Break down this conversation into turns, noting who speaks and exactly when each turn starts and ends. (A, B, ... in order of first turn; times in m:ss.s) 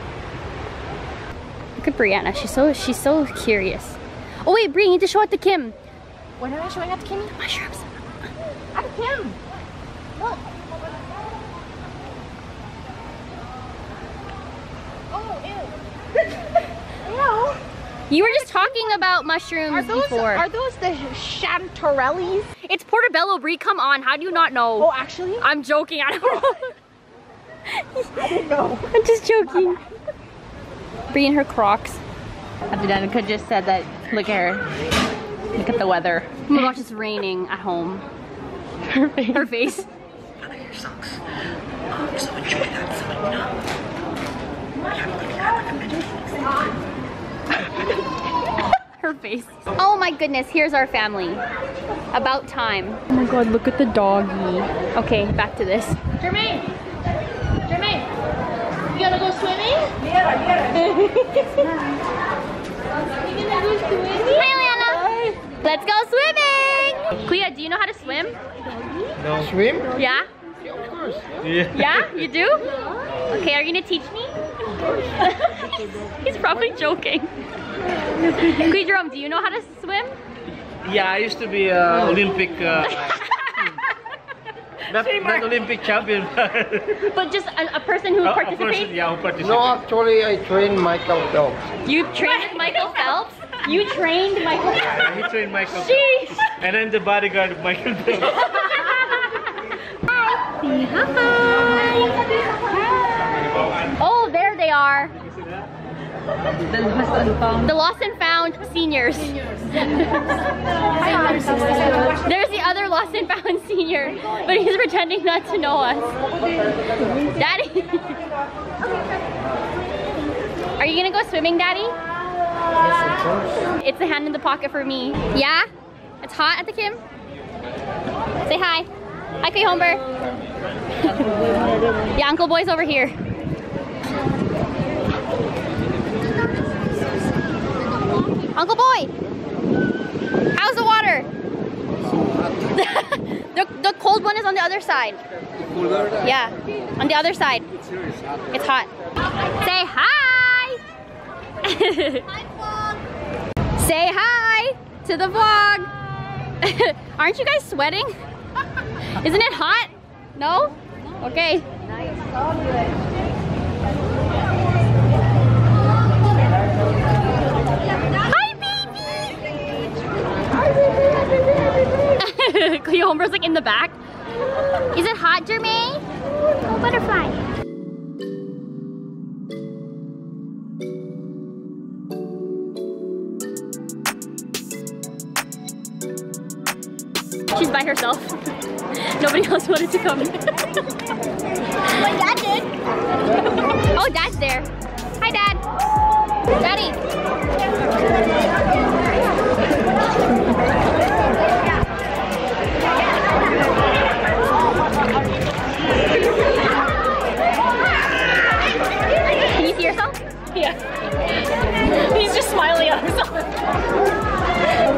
0:01.8-0:05.8 A
0:06.4-0:07.3 B
0:07.3-0:08.3 A
0:08.7-0:09.4 B
0:10.2-0:10.7 B
0:15.1-0:16.4 B
0:17.0-0:17.6 B
0:18.1-0:20.4 A
0:18.2-0:18.7 B
0:19.7-0:22.5 B
0:22.6-0:26.7 A
0:24.8-0:25.5 B
0:27.7-0:28.1 A
0:28.2-0:28.9 B
0:28.9-0:29.8 A
0:29.5-0:29.8 B
0:31.1-0:32.0 A
0:32.7-0:34.6 B
0:35.5-0:36.5 B
0:36.5-0:38.0 A
0:38.9-0:39.4 B
0:39.2-0:39.9 A
0:40.4-0:41.2 C
0:41.9-0:43.6 C
0:44.8-0:46.5 C
0:49.0-0:51.4 A
0:52.1-0:56.0 A
0:56.2-0:56.7 B
0:57.6-0:58.1 B
0:58.9-1:01.7 B
1:03.2-1:05.3 B
1:04.2-1:08.4 A
1:09.2-1:09.5 C
1:09.4-1:09.9 D
1:10.0-1:10.3 A
1:10.6-1:11.2 D
1:11.4-1:12.1 C
1:11.7-1:12.6 A
1:13.3-1:14.3 A
1:15.2-1:17.3 A
1:18.2-1:20.2 A
1:20.8-1:23.2 C
1:23.1-1:23.5 A
1:24.9-1:27.0 C
1:27.1-1:29.0 A
1:28.2-1:29.7 C
1:29.4-1:31.6 D
1:31.8-1:35.1 A
1:34.9-1:38.5 C
1:35.7-1:36.5 A
1:38.4-1:39.4 A
1:40.1-1:41.3 A
1:41.8-1:42.6 B
1:44.0-1:45.1 A
1:47.0-1:47.4 B
1:47.5-1:50.3 A
1:51.0-1:52.2 B
1:51.0-1:56.1 A
1:57.2-1:58.2 A
2:00.8-2:02.0 A
2:03.8-2:05.7 A
2:06.2-2:07.0 A
2:08.4-2:08.9 A
2:09.4-2:10.0 A
2:11.0-2:11.5 A
2:12.1-2:13.1 A
2:18.5-2:19.1 A
2:20.5-2:21.3 A
2:22.7-2:25.2 A
2:26.2-2:27.7 A
2:28.5-2:28.9 A
2:29.6-2:30.8 A
2:31.6-2:32.3 A
2:33.8-2:35.9 A
2:36.6-2:38.1 A
2:39.2-2:41.6 A
2:48.2-2:48.9 A
2:52.2-2:54.0 A
2:54.9-2:56.0 A
2:56.6-2:57.4 A
3:07.5-3:08.3 A
3:08.9-3:10.7 A
3:11.9-3:12.7 B
3:13.9-3:14.7 A
3:15.2-3:15.6 A
3:16.6-3:17.0 A
3:29.4-3:30.9 A
3:31.7-3:33.4 A